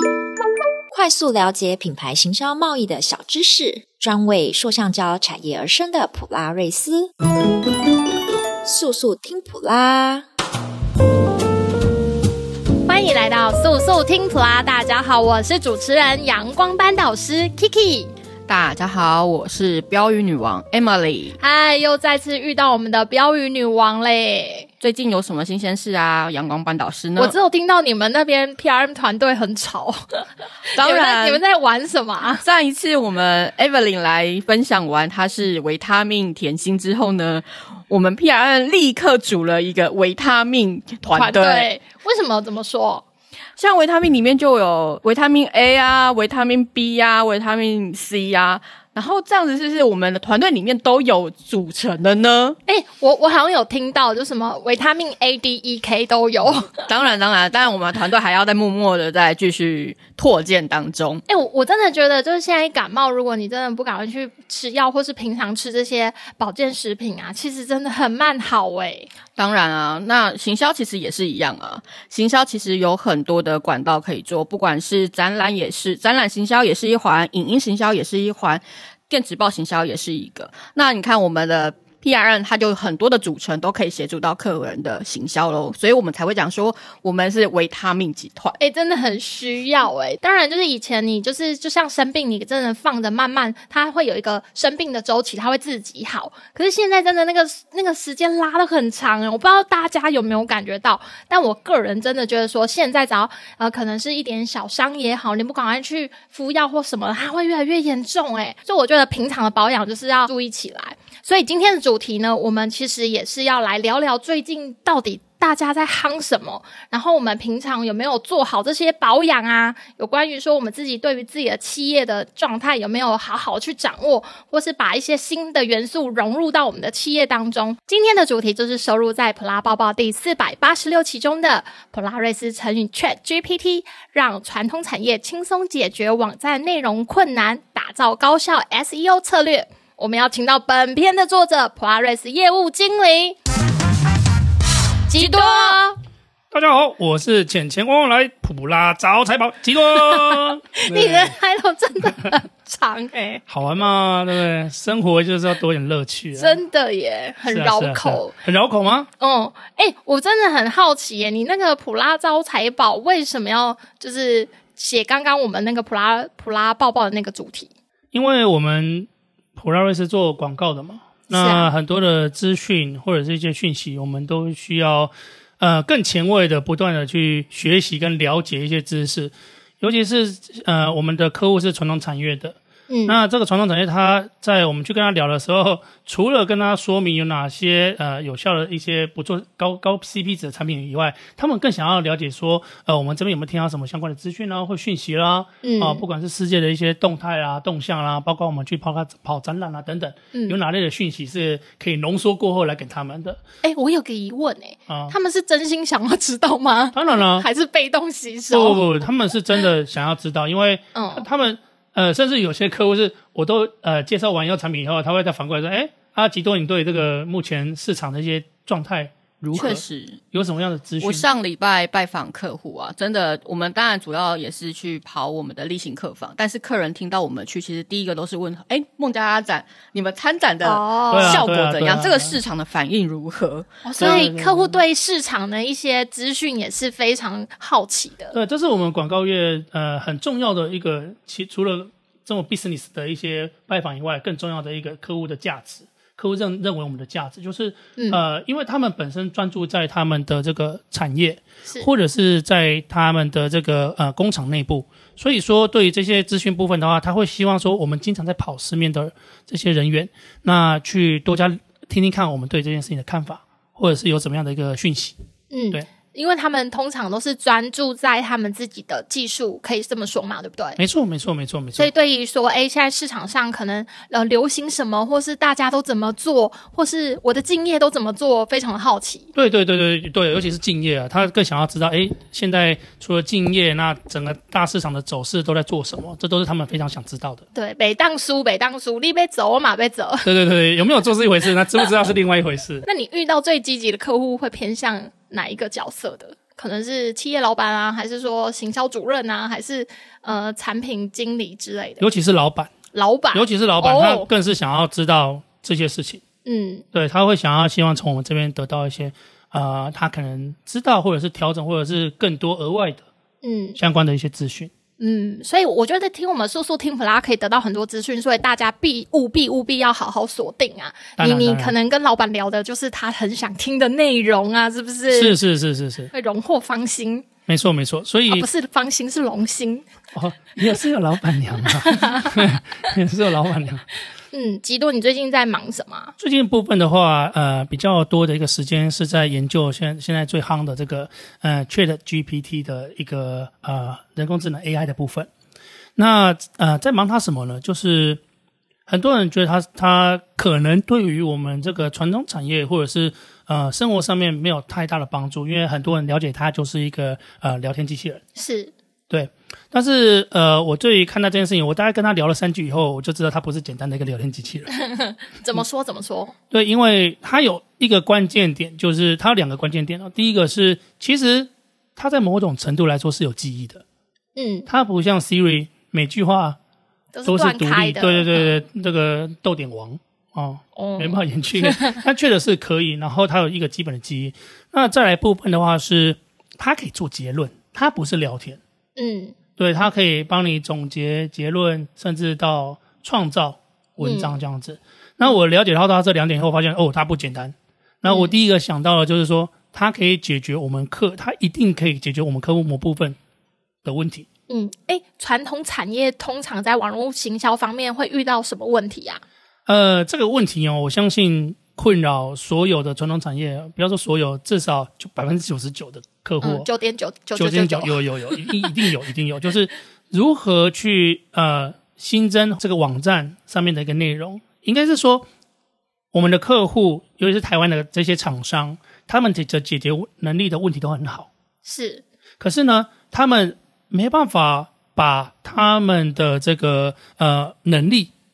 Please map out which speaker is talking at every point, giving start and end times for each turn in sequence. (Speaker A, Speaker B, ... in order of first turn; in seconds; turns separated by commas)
Speaker A: 0.9-7.1, Speaker A: 8.6-10.2, Speaker B: 12.9-18.1, Speaker C: 18.5-21.4, Speaker B: 21.4-24.7, Speaker C: 24.8-27.4, Speaker B: 27.2-32.4, Speaker C: 30.8-31.4, Speaker C: 32.4-41.7, Speaker B: 41.1-43.0, Speaker C: 43.6-52.6, Speaker B: 52.7-56.9, Speaker C: 56.8-61.2, Speaker B: 61.3-69.1, Speaker C: 69.3-88.6, Speaker B: 88.6-143.4, Speaker B: 145.1-145.9, Speaker D: 146.5-151.3, Speaker B: 150.2-153.4, Speaker D: 153.5-156.6, Speaker B: 156.3-158.3, Speaker D: 157.5-159.1, Speaker B: 159.2-167.7, Speaker D: 168.1-203.4, Speaker B: 171.3-171.7, Speaker B: 182.9-183.2, Speaker B: 195.6-196.0, Speaker B: 203.6-209.1, Speaker D: 204.9-205.1, Speaker D: 206.9-207.5, Speaker D: 208.5-221.2, Speaker B: 210.9-211.3, Speaker C: 219.5-220.2, Speaker C: 221.0-234.3, Speaker B: 230.6-231.4, Speaker D: 231.1-232.4, Speaker B: 233.8-238.3, Speaker D: 234.0-234.8, Speaker D: 238.3-265.1, Speaker B: 265.5-270.8, Speaker D: 270.8-271.9, Speaker B: 271.8-279.3, Speaker D: 279.3-287.4, Speaker B: 287.5-290.3, Speaker D: 290.2-292.9, Speaker B: 292.8-302.1, Speaker D: 302.0-302.7, Speaker B: 302.9-304.3, Speaker D: 303.3-306.2, Speaker B: 306.4-306.9, Speaker D: 306.9-313.0, Speaker B: 313.4-313.8, Speaker D: 313.8-314.7, Speaker B: 315.0-325.4, Speaker D: 321.2-321.7, Speaker D: 325.1-326.1, Speaker B: 326.1-327.3, Speaker D: 327.5-328.4, Speaker B: 328.3-329.9, Speaker D: 330.1-333.9, Speaker B: 331.8-332.4, Speaker B: 334.3-336.1, Speaker D: 336.2-345.3, Speaker D: 346.0-348.2, Speaker D: 348.9-358.2, Speaker B: 358.4-358.7, Speaker D: 359.1-364.7, Speaker B: 364.7-366.3, Speaker D: 366.5-373.8, Speaker B: 374.4-374.7, Speaker D: 374.7-376.6, Speaker B: 377.1-378.6, Speaker D: 377.2-388.6, Speaker B: 380.8-382.0, Speaker B: 389.0-389.4, Speaker D: 389.6-403.2, Speaker B: 394.0-394.3, Speaker B: 398.0-398.3, Speaker D: 403.8-404.3, Speaker B: 404.5-409.2, Speaker D: 409.7-416.7, Speaker B: 416.4-418.7, Speaker D: 417.3-425.3, Speaker D: 426.1-431.3, Speaker B: 431.6-432.0, Speaker D: 432.4-438.1